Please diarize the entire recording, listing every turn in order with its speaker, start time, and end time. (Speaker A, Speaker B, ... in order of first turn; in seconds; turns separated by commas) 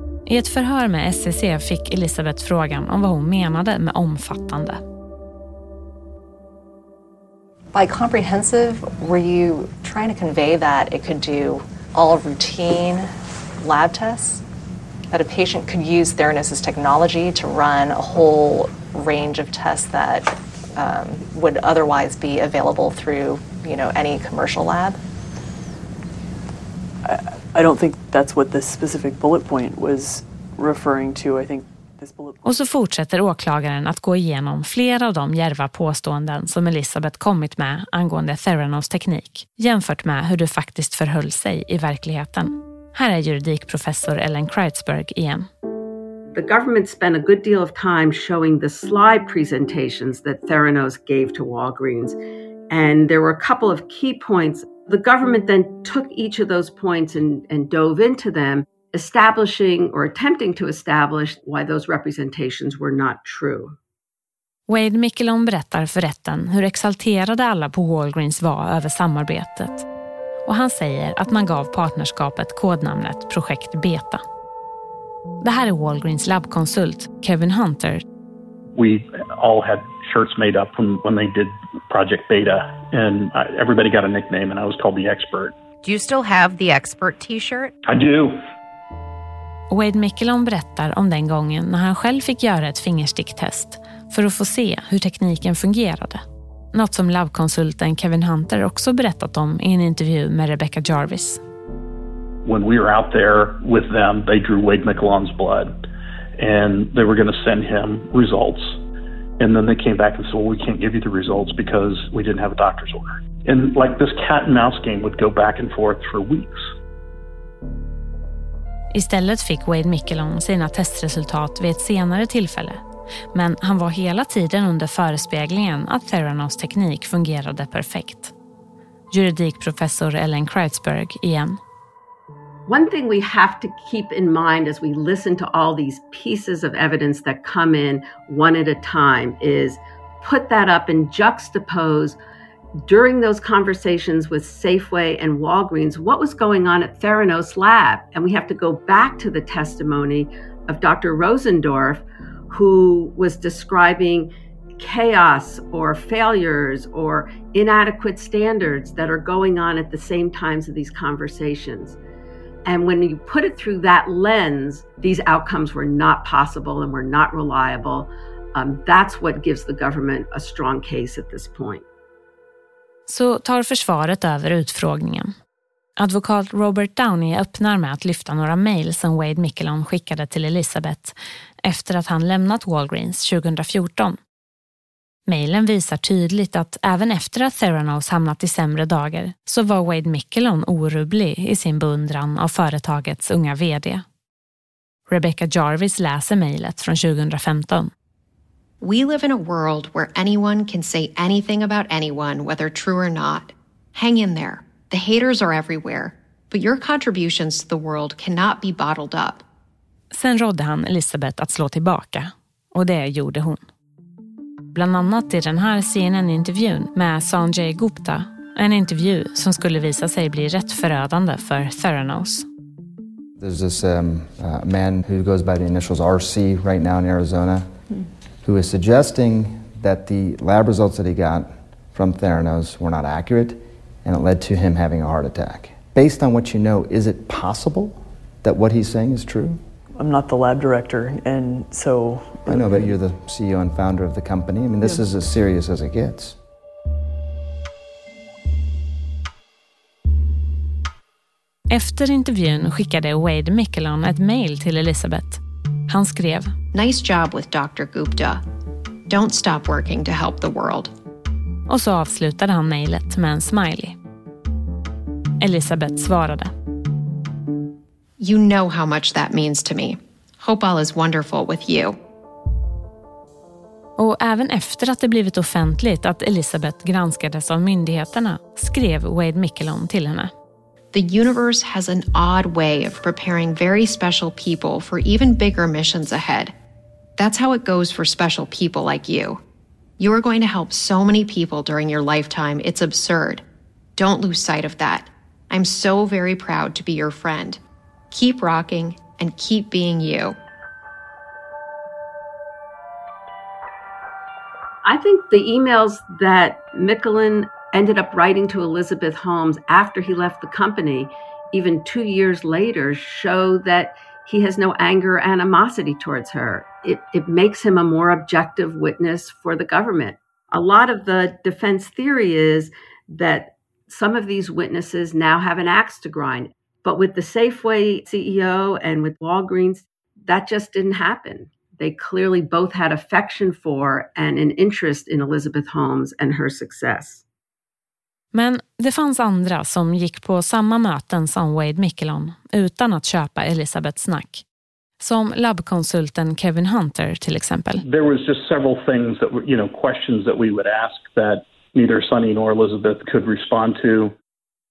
Speaker A: 0.2-4.8, Speaker B: 7.7-14.4, Speaker B: 15.1-25.0, Speaker C: 27.0-32.5, Speaker A: 32.4-45.5, Speaker D: 46.3-52.2, Speaker D: 52.7-63.7, Speaker A: 64.7-69.8, Speaker A: 70.5-74.2, Speaker A: 75.4-78.0, Speaker E: 78.7-85.5, Speaker F: 85.8-87.7, Speaker E: 87.8-88.4, Speaker A: 89.7-96.2, Speaker A: 96.7-101.4, Speaker E: 102.4-105.7, Speaker E: 106.4-108.8, Speaker E: 109.4-116.7, Speaker A: 118.9-128.3, Speaker A: 129.1-131.6, Speaker D: 132.7-142.2, Speaker D: 142.8-162.0, Speaker D: 162.7-171.8, Speaker A: 173.1-175.3, Speaker A: 176.0-184.2, Speaker A: 185.3-194.0, Speaker A: 195.1-197.9, Speaker F: 198.8-209.4, Speaker A: 210.1-213.6, Speaker A: 214.7-222.5, Speaker G: 223.4-227.8, Speaker G: 228.4-239.6, Speaker C: 240.0-243.0, Speaker G: 242.4-246.4, Speaker C: 244.8-245.1, Speaker A: 251.7-256.5, Speaker F: 256.7-258.4, Speaker F: 259.1-260.9, Speaker A: 261.7-264.0, Speaker A: 265.4-266.5, Speaker F: 268.2-272.0, Speaker A: 274.0-280.3, Speaker F: 280.9-286.5, Speaker F: 287.2-289.4, Speaker F: 290.0-293.4, Speaker F: 294.0-300.4, Speaker D: 304.8-337.2, Speaker A: 338.3-344.4, Speaker A: 345.0-347.8, Speaker E: 347.8-354.1